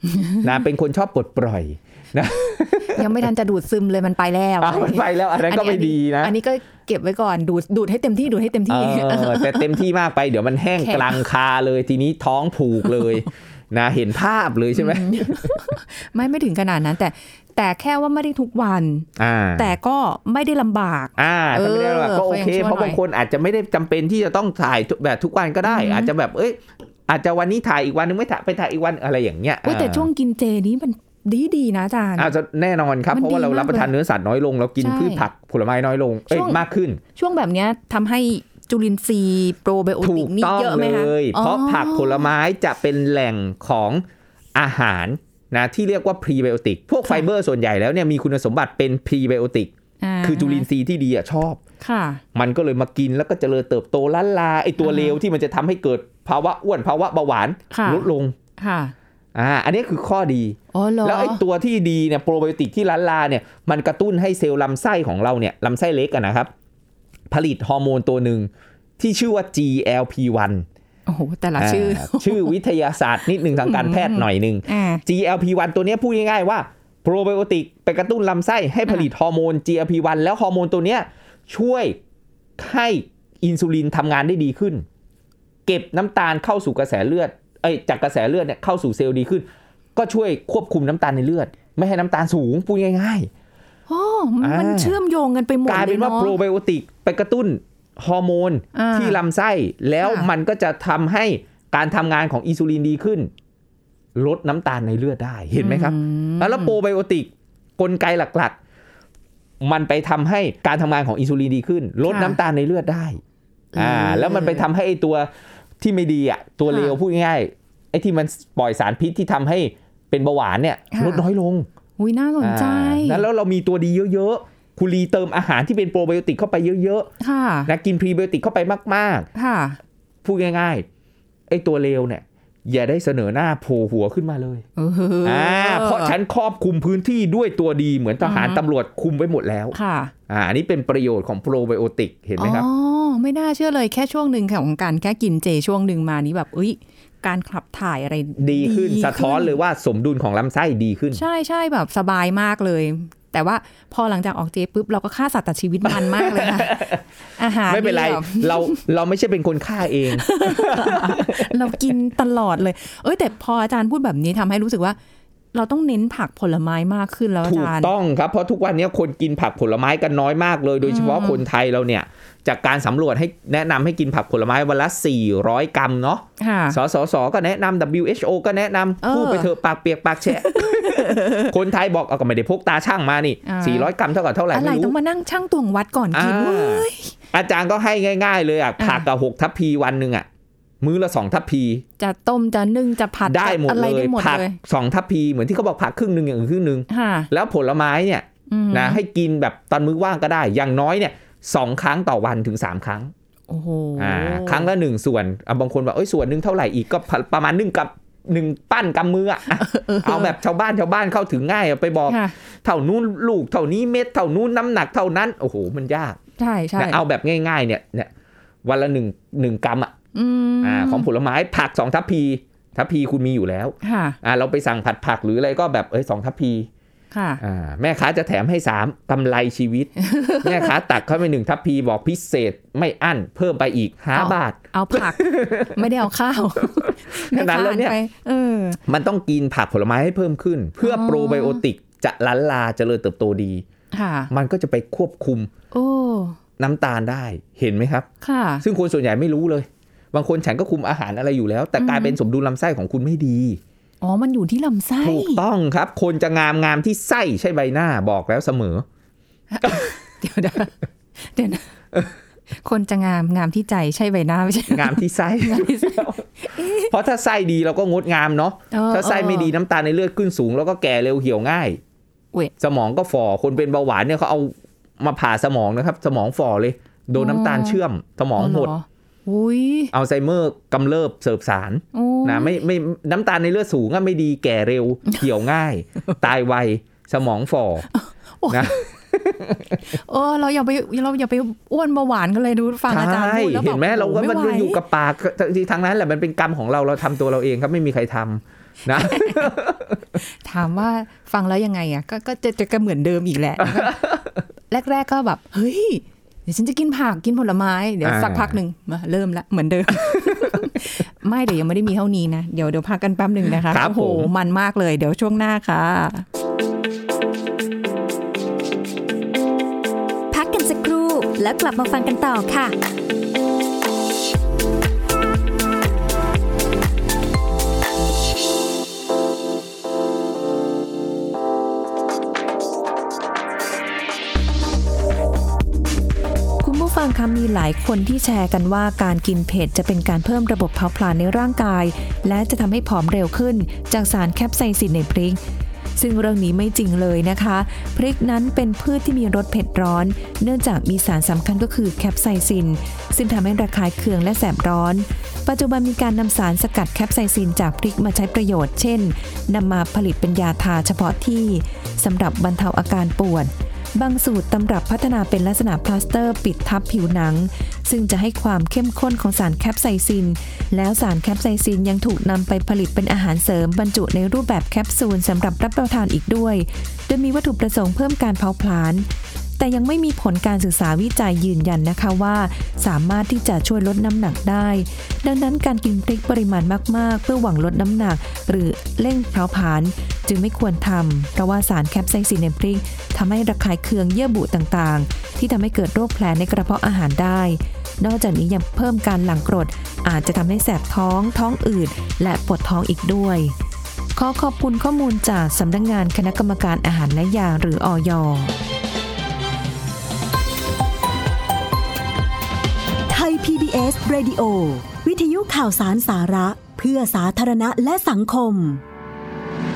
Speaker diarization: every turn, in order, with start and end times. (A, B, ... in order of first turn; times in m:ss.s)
0:00.4-0:03.1 A
0:02.9-0:09.8 B
0:04.6-0:06.3 A
0:08.7-0:15.6 A
0:10.8-0:11.2 B
0:12.9-0:13.2 B
0:14.8-0:23.0 B
0:19.2-0:19.8 A
0:21.2-0:30.1 A
0:25.6-0:26.1 B
0:29.6-0:32.3 B
0:32.2-0:37.0 A
0:33.1-0:33.9 B
0:34.8-0:35.3 B
0:36.3-0:36.6 B
0:37.2-0:42.3 B
0:40.0-0:49.7 A
0:50.0-0:50.7 B
0:50.2-0:51.6 A
0:51.8-0:52.2 B
0:52.3-0:58.4 A
0:54.8-0:55.2 B
0:57.7-0:58.1 B
0:58.6-0:58.9 B
0:59.4-1:06.5 A
1:00.7-1:01.4 B
1:07.3-1:10.7 A
1:11.1-1:12.5 B
1:11.6-1:22.0 A
1:13.5-1:15.0 B
1:22.6-1:24.8 A
1:25.7-1:33.3 A
1:33.9-1:36.4 B
1:34.4-1:35.0 A
1:35.7-1:43.3 A
1:38.8-1:39.2 B
1:40.0-1:40.3 B
1:44.2-1:48.6 A
1:45.6-1:46.8 B
1:49.6-1:53.2 A
1:52.0-1:52.4 B
1:53.7-1:54.6 B
1:53.8-2:01.7 A
1:56.7-1:57.0 B
2:00.9-2:01.2 B
2:02.0-2:03.2 B
2:02.4-2:07.1 A
2:07.2-2:07.7 B
2:07.7-2:09.3 A
2:09.4-2:09.8 B
2:10.2-2:10.9 A
2:11.5-2:14.6 A
2:14.8-2:16.2 B
2:15.2-2:19.8 A
2:18.2-2:18.6 B
2:19.7-2:20.1 B
2:20.3-2:22.7 A
2:22.4-2:29.6 B
2:28.4-2:31.2 A
2:31.2-2:38.8 B
2:35.8-2:37.0 A
2:37.7-2:41.9 A
2:40.1-2:45.0 B
2:45.5-2:47.9 B
2:47.4-3:05.0 A
2:50.8-2:51.4 B
2:56.4-2:56.8 B
2:59.0-2:59.5 B
3:00.2-3:01.5 B
3:03.5-3:03.9 B
3:04.5-3:07.1 B
3:06.1-3:10.3 A
3:08.8-3:09.0 B
3:10.8-3:11.8 A
3:12.0-3:14.6 B
3:13.2-3:23.1 A
3:16.9-3:17.3 B
3:18.5-3:19.0 B
3:23.5-3:24.7 B
3:24.0-3:36.2 A
3:29.5-3:30.4 B
3:32.1-3:32.3 B
3:36.4-3:37.0 B
3:36.8-3:38.1 A
3:38.6-3:39.9 A
3:40.1-3:41.1 B
3:40.6-3:46.7 A
3:43.8-3:44.2 B
3:47.1-3:47.4 B
3:47.4-3:55.9 A
3:50.0-3:50.7 B
3:54.1-3:58.8 B
3:56.6-3:58.0 A
3:58.9-4:03.6 A
4:00.8-4:01.6 B
4:03.9-4:04.3 B
4:04.3-4:05.5 A
4:05.7-4:06.4 B
4:06.6-4:08.1 A
4:08.2-4:08.6 B
4:08.6-4:13.6 A
4:11.8-4:12.2 B
4:14.0-4:15.4 B
4:15.0-4:18.8 A
4:19.5-4:21.7 B
4:19.6-4:19.9 A
4:22.6-4:26.9 B
4:24.7-4:31.8 A
4:28.7-4:29.5 B
4:32.6-4:38.7 A
4:37.1-4:37.8 B
4:38.4-4:39.9 B
4:39.9-4:47.9 A
4:41.9-4:42.6 B
4:47.9-4:48.9 B
4:48.5-4:49.8 A
4:49.8-4:54.8 B
4:52.9-5:00.0 A
4:58.9-4:59.5 B
5:00.4-5:04.0 B
5:03.6-5:04.3 A
5:04.7-5:16.2 B
5:08.0-5:08.6 A
5:13.7-5:14.3 A
5:20.3-5:22.7 C
5:36.6-5:45.4 D
5:46.0-6:19.1 D
6:19.6-6:43.5 D
6:44.2-6:48.5 D
6:53.1-6:58.8 E